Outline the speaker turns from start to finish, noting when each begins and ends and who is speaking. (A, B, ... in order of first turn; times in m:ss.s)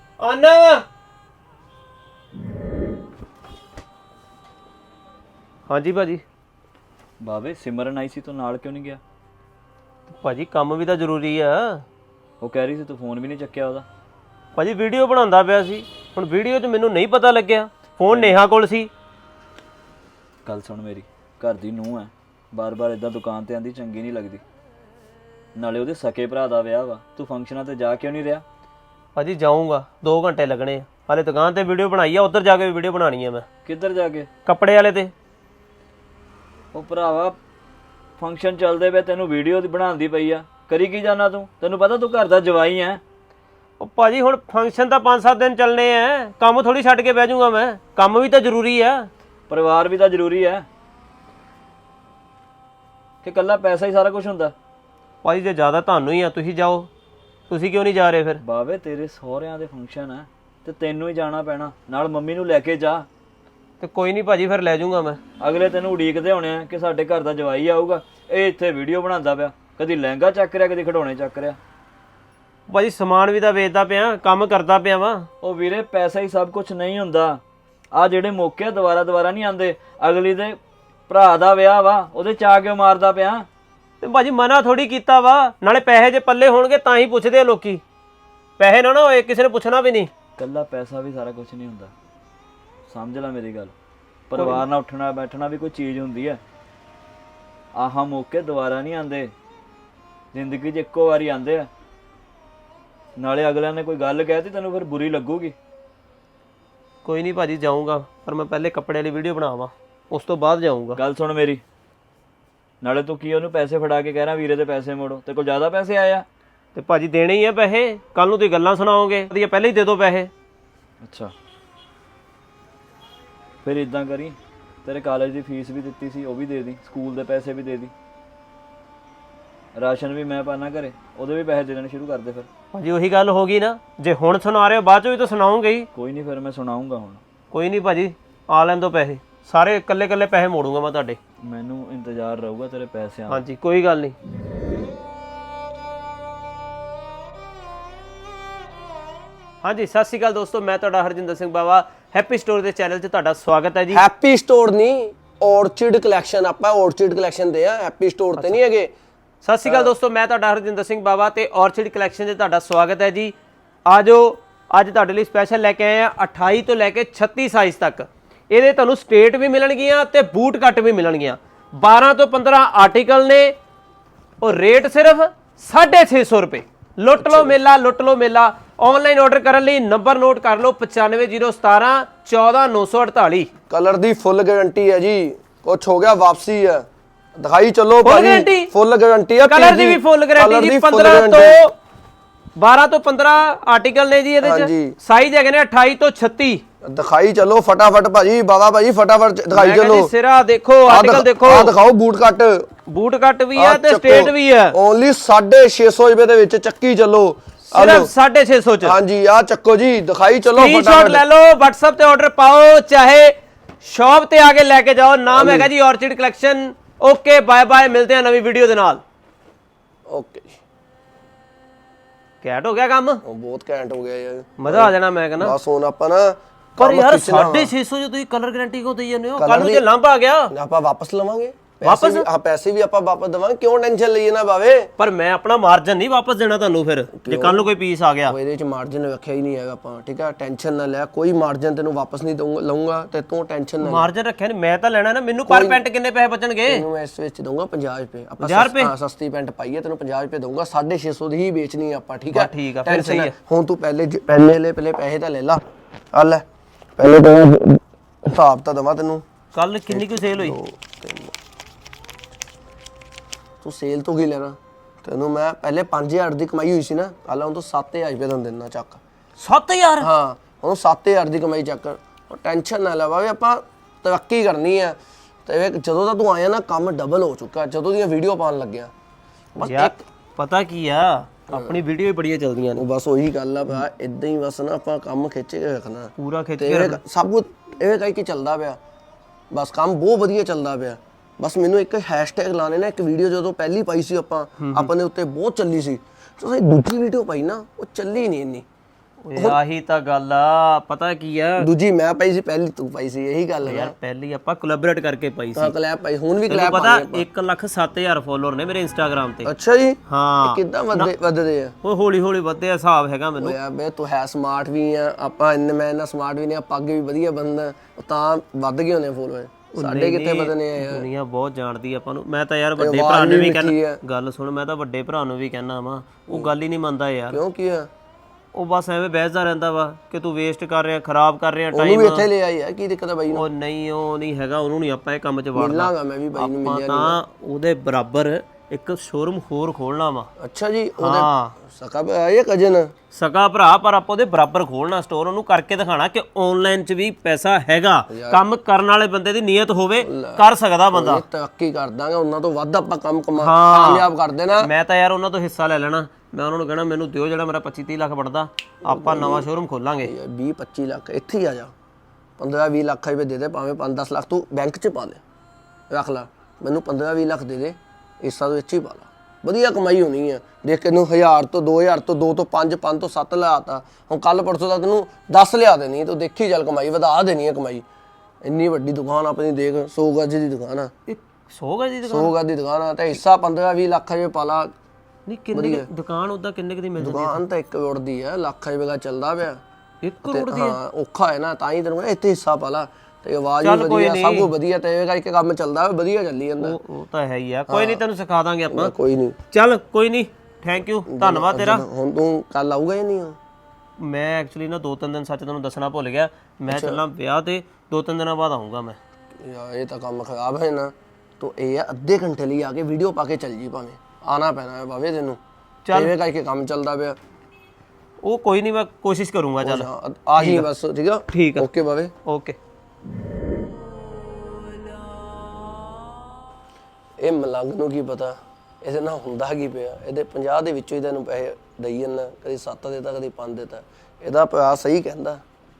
0:00.2-0:00.8 A
0:05.7-0:06.2 A
0:07.2-0:09.0 B
0:10.1-0:11.8 A
0:12.4-0:13.8 B
0:14.5-0:18.9 A
0:18.1-0:18.4 B
0:20.4-0:24.4 B
0:25.5-0:28.4 B
0:29.2-0:33.4 A
0:33.6-0:34.3 B
0:34.4-0:35.1 A
0:36.7-0:37.4 B
0:38.2-0:43.0 B
0:43.8-0:49.1 A
0:49.5-0:50.6 B
0:53.2-0:54.5 B
0:55.2-0:56.9 A
0:57.5-0:58.4 A
0:58.4-1:03.1 B
1:03.8-1:05.2 A
1:05.4-1:11.6 B
1:12.7-1:15.3 A
1:15.4-1:17.4 B
1:17.9-1:23.5 B
1:24.0-1:27.8 A
1:28.6-1:30.1 A
1:30.4-1:31.9 B
1:32.9-1:33.7 B
1:34.3-1:36.4 B
1:34.3-1:34.6 A
1:37.7-1:39.3 B
1:40.3-1:41.7 B
1:43.2-1:45.6 B
1:47.0-1:51.0 A
1:51.0-1:51.6 B
1:52.8-1:56.2 B
1:56.7-2:00.3 A
2:01.0-2:01.3 B
2:03.6-2:07.9 B
2:09.7-2:12.5 B
2:12.7-2:15.9 A
2:15.9-2:17.2 B
2:17.5-2:21.2 A
2:21.4-2:23.4 B
2:23.3-2:24.2 A
2:29.6-2:34.0 A
2:33.9-2:38.9 C
2:39.4-2:43.3 A
2:39.6-2:39.9 C
2:43.8-2:53.5 A
2:54.4-3:03.5 A
2:57.2-2:57.6 C
3:03.7-3:11.6 C
3:08.0-3:08.7 A
3:09.4-3:11.7 A
3:12.6-3:16.6 A
3:14.4-3:14.9 C
3:16.8-3:20.1 C
3:19.5-3:21.8 A
3:20.9-3:22.7 C
3:22.9-3:24.8 A
3:23.5-3:28.1 C
3:27.7-3:29.0 A
3:28.8-3:31.2 C
3:30.5-3:39.0 A
3:35.3-3:35.7 C
3:40.1-3:40.6 C
3:42.4-3:43.2 A
3:43.2-3:47.7 C
3:44.6-3:45.6 A
3:46.8-3:50.5 A
3:49.4-3:49.8 C
3:50.5-3:54.9 C
3:51.8-3:52.3 A
3:55.0-3:58.4 A
3:57.1-3:57.7 C
3:58.2-4:04.1 C
4:03.8-4:06.8 A
4:05.5-4:05.8 C
4:06.7-4:15.6 C
4:08.4-4:08.9 A
4:12.3-4:13.3 A
4:16.1-4:16.4 C
4:17.0-4:19.2 C
4:19.5-4:20.6 A
4:19.9-4:21.3 C
4:23.6-4:29.0 C
4:29.4-4:30.1 A
4:30.0-4:38.9 C
4:39.5-4:40.0 C
4:39.6-4:42.8 A
4:41.5-4:41.8 C
4:42.8-4:48.8 C
4:46.2-4:47.0 A
4:49.5-4:58.6 C
4:54.6-4:54.9 A
4:59.2-5:01.7 A
5:01.6-5:03.9 C
5:03.6-5:05.7 A
5:05.5-5:07.2 C
5:06.5-5:09.5 A
5:09.4-5:11.8 C
5:10.1-5:11.1 A
5:11.8-5:13.6 A
5:13.4-5:21.1 C
5:19.7-5:27.4 A
5:22.8-5:24.0 C
5:27.3-5:27.9 C
5:28.5-5:32.3 A
5:31.7-5:33.4 C
5:33.3-5:40.3 A
5:35.5-5:37.2 C
5:40.4-5:42.9 C
5:41.0-5:41.6 A
5:43.1-5:51.2 A
5:48.1-5:48.4 C
5:50.0-5:54.7 C
5:53.4-6:00.1 A
5:58.8-5:59.5 C
6:00.0-6:01.7 C
6:02.4-6:05.2 C
6:05.9-6:17.8 C
6:18.4-6:20.9 C
6:21.1-6:22.3 A
6:22.0-6:24.7 C
6:25.3-6:27.4 A
6:25.5-6:25.9 C
6:27.0-6:29.6 C
6:30.0-6:30.8 A
6:30.2-6:36.8 C
6:33.6-6:34.5 A
6:36.6-6:38.9 A
6:37.7-6:38.0 C
6:38.7-6:39.4 C
6:39.5-6:41.8 A
6:41.1-6:43.4 C
6:44.0-6:49.0 A
6:46.7-6:47.0 C
6:49.4-6:55.4 C
6:55.8-6:56.1 A
6:55.9-6:57.2 C
6:58.2-7:00.7 A
6:59.6-7:02.1 C
7:01.3-7:01.7 A
7:02.2-7:02.6 A
7:07.2-7:15.4 C